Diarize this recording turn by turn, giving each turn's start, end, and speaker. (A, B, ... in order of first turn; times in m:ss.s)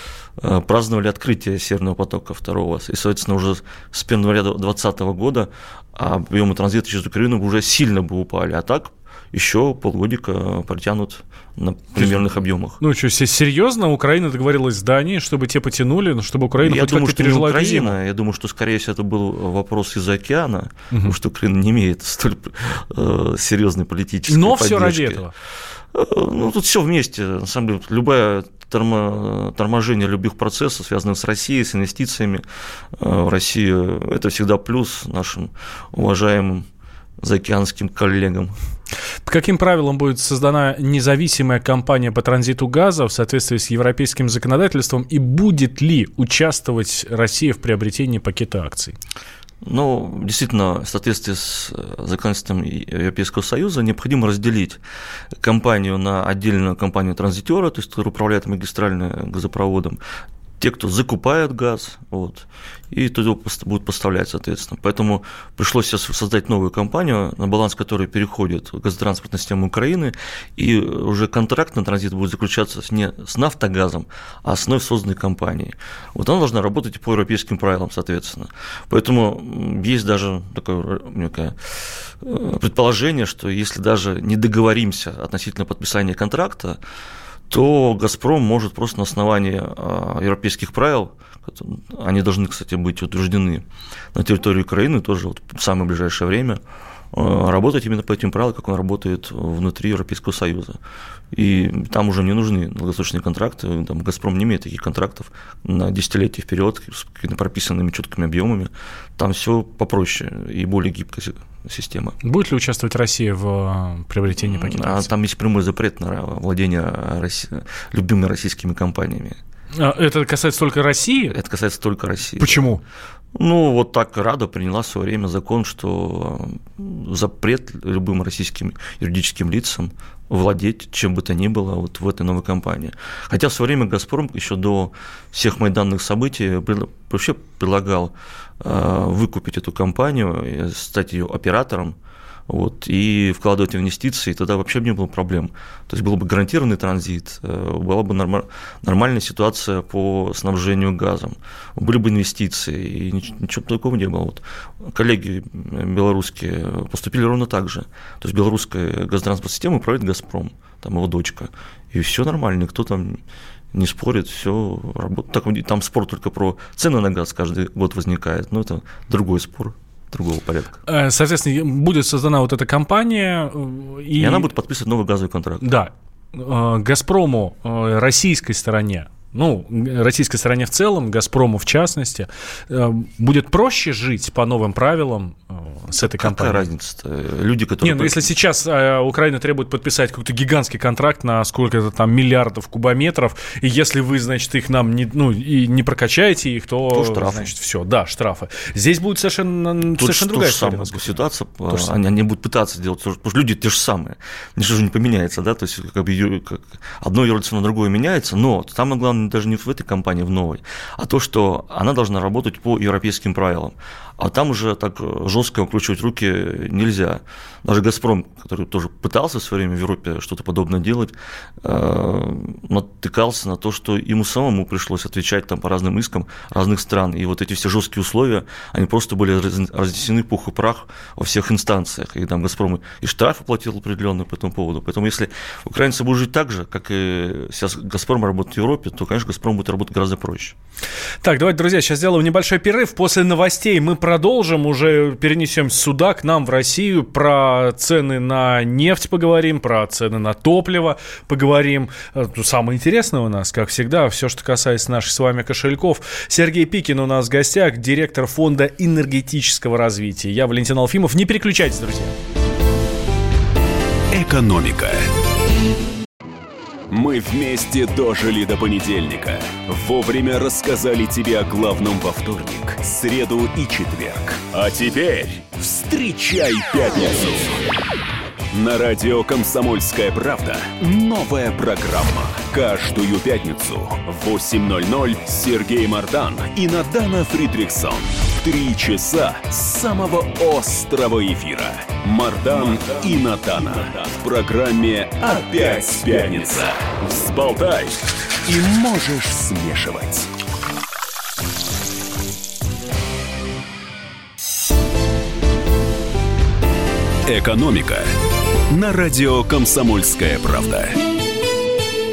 0:00.4-0:12.8 A
0:12.8-0:18.0 B
0:16.6-0:25.3 A
0:24.3-0:25.3 B
0:25.9-0:32.4 A
0:33.0-0:36.7 A
0:37.2-0:38.6 A
0:39.3-0:49.0 B
0:49.6-0:54.8 A
0:55.4-1:00.0 A
1:00.6-1:26.8 A
1:27.5-1:36.6 A
1:37.1-1:40.8 A
1:41.3-1:52.2 A
1:52.2-1:55.1 B
1:54.4-1:59.4 A
1:59.8-2:01.4 B
2:01.3-2:02.7 A
2:02.4-2:02.8 B
2:03.4-2:22.0 A
2:22.5-2:43.2 A
2:43.7-2:50.8 A
2:50.9-2:54.5 B
2:54.2-2:55.7 A
2:55.6-3:06.6 B
3:06.2-3:08.3 A
3:07.8-3:21.9 B
3:16.9-3:17.5 A
3:20.0-4:00.6 A
4:01.2-4:22.2 B
4:24.1-4:25.1 C
4:26.9-4:37.6 C
4:38.5-5:00.3 C
5:07.3-5:08.1 C
5:08.7-5:11.0 C